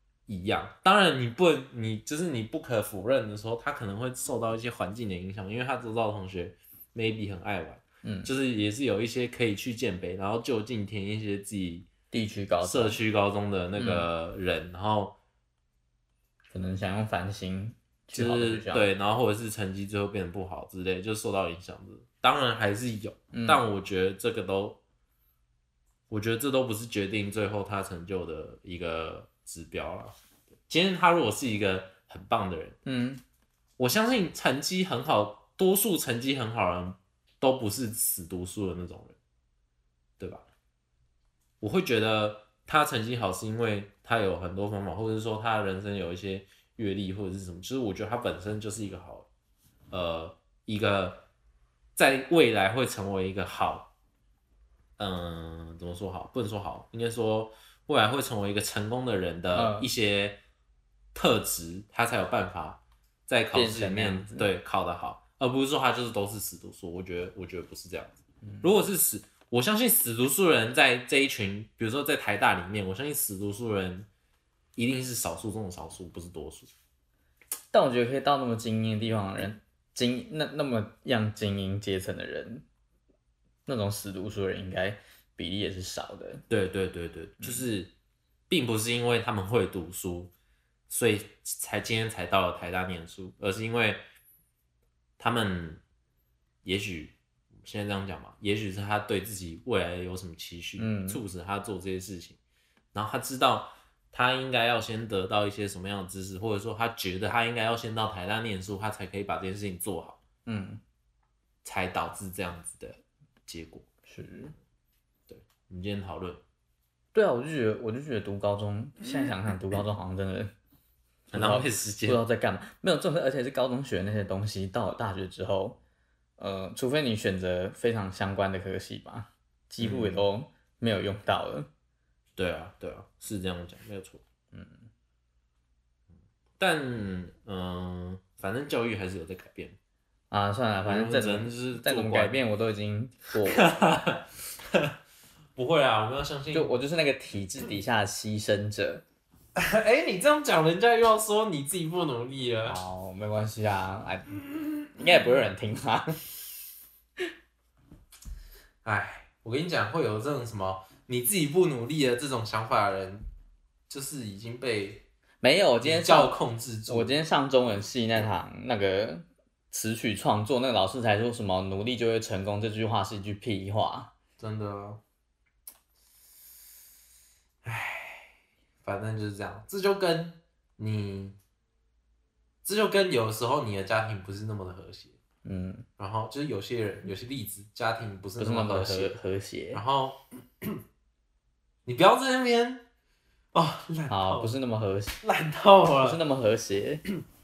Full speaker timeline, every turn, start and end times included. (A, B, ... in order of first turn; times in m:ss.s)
0:00.3-0:11.9 A
0:08.0-0:08.3 B
0:12.1-0:13.0 B
0:12.6-0:15.2 A
0:13.8-0:14.1 B
0:16.5-0:18.9 B
0:18.1-0:24.8 A
0:23.3-0:23.6 B
0:26.1-0:30.2 A
0:30.7-0:32.8 A
0:32.8-0:33.2 B
0:33.8-0:39.2 A
0:40.2-0:40.4 A
0:41.6-0:49.3 A
0:49.9-0:51.3 A
0:52.0-0:53.9 A
0:55.0-1:00.4 A
0:59.5-0:59.9 B
1:01.1-1:14.1 A
1:03.5-1:04.5 B
1:14.8-1:16.7 A
1:17.7-1:22.6 B
1:23.6-1:26.4 B
1:26.5-1:27.9 A
1:28.5-1:30.3 A
1:30.9-1:34.0 A
1:35.2-1:35.8 A
1:36.6-1:42.4 A
1:40.8-1:41.2 B
1:42.9-1:50.2 A
1:50.4-1:50.8 B
1:51.6-1:53.8 A
1:54.1-1:54.5 B
1:55.3-1:56.4 A
1:57.1-2:00.5 B
2:01.3-2:05.8 B
2:01.3-2:02.2 A
2:06.4-2:11.7 B
2:09.8-2:10.2 A
2:12.4-2:14.2 A
2:14.5-2:14.9 B
2:16.6-2:19.8 A
2:20.3-2:24.0 B
2:20.8-2:22.4 A
2:23.5-2:24.9 A
2:25.6-2:26.8 A
2:26.5-2:29.0 B
2:29.5-2:32.8 A
2:32.6-2:36.2 B
2:38.8-2:43.3 A
2:43.9-2:45.0 A
2:45.4-2:46.3 B
2:45.8-2:47.1 A
2:46.9-2:54.1 B
2:54.4-2:55.0 A
2:57.6-3:01.4 A
3:02.6-3:05.2 A
3:05.4-3:05.9 B
3:06.0-3:09.2 A
3:08.4-3:09.8 B
3:09.7-3:10.8 A
3:11.8-3:12.8 A
3:13.5-3:14.5 A
3:14.1-3:15.2 B
3:15.2-3:16.2 A
3:16.0-3:17.0 B